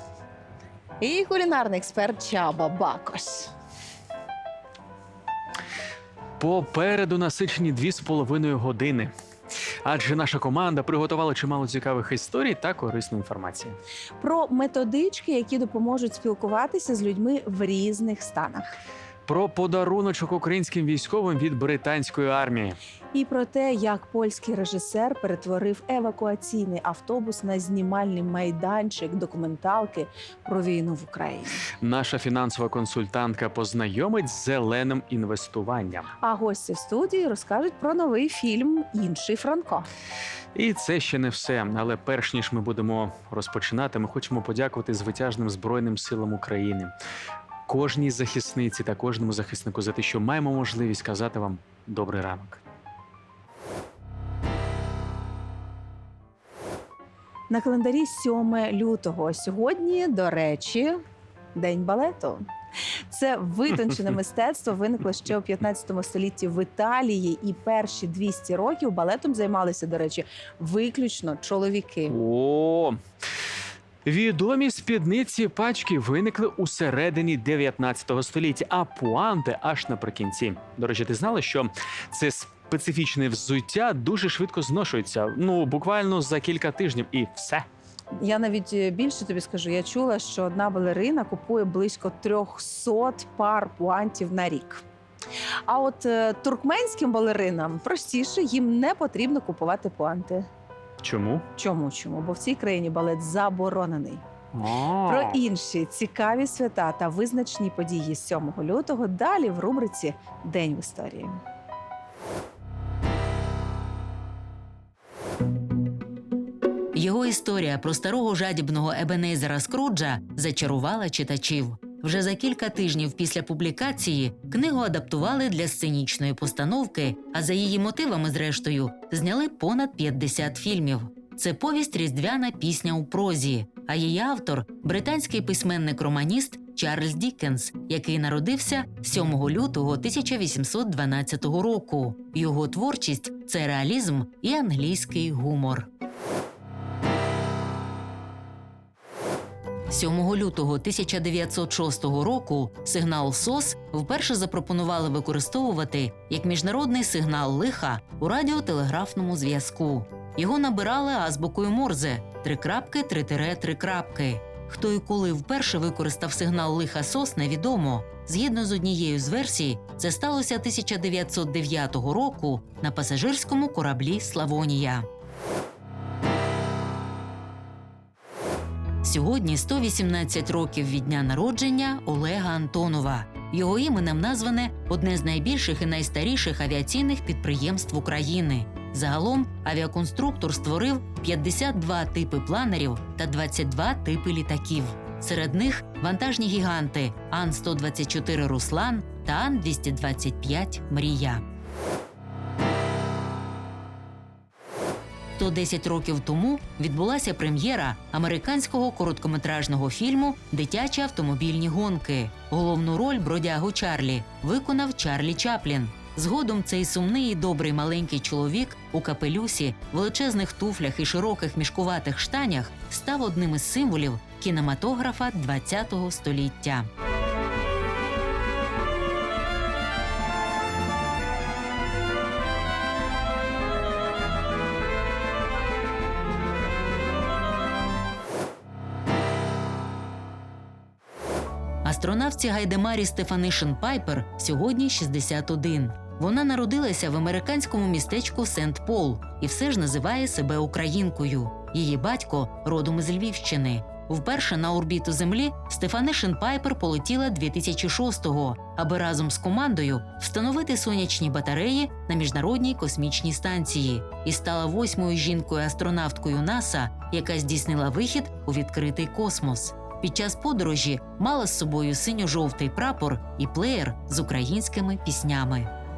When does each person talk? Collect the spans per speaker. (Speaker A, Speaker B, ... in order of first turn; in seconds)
Speaker A: 1.0-3.5, 14.2-18.7, 23.1-31.6, 36.2-39.9, 57.5-61.0, 61.5-62.4, 63.1-72.1, 88.1-94.8, 95.7-100.5, 101.6-104.2, 105.1-111.4
Speaker B: 6.4-9.1, 9.8-13.8, 19.3-22.8, 31.8-36.1, 40.5-46.9, 47.7-52.6, 72.1-73.0, 74.0-87.7, 101.0-101.5, 104.5-105.4
Speaker C: 116.9-145.9, 149.9-175.1, 179.0-201.4, 205.4-226.9, 241.8-275.7